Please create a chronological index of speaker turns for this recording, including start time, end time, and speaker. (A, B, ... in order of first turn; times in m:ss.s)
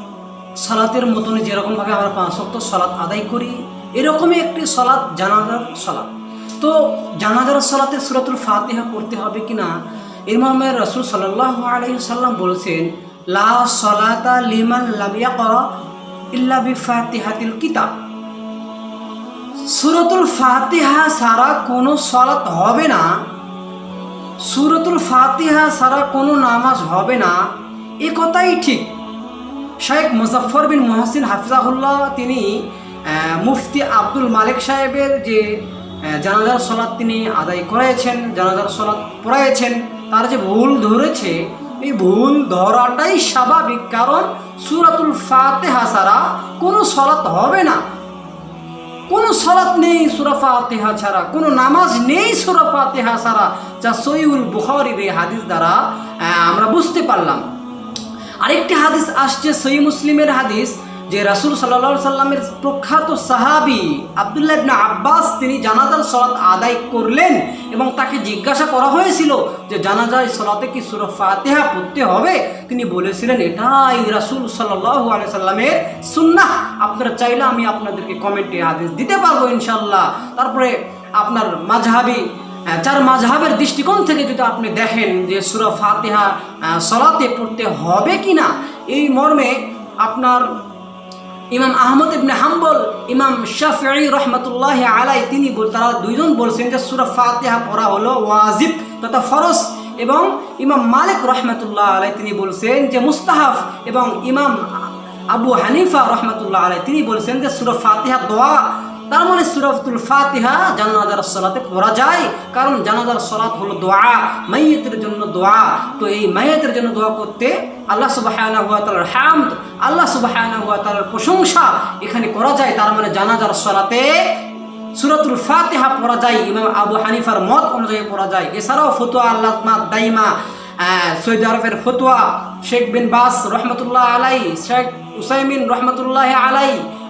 0:00.6-0:06.1 A
0:06.6-0:09.7 A
0:10.3-0:15.7 A
0:16.3-0:17.9 A
0:19.7-0:23.2 A
0:24.4-0:27.4 A
0:28.0-0:28.9 A
0:29.8-0:47.8 A
0:49.1-0:57.4 A
0:58.4-1:30.6 A
1:31.5-2:04.4 A
2:04.9-2:16.8 A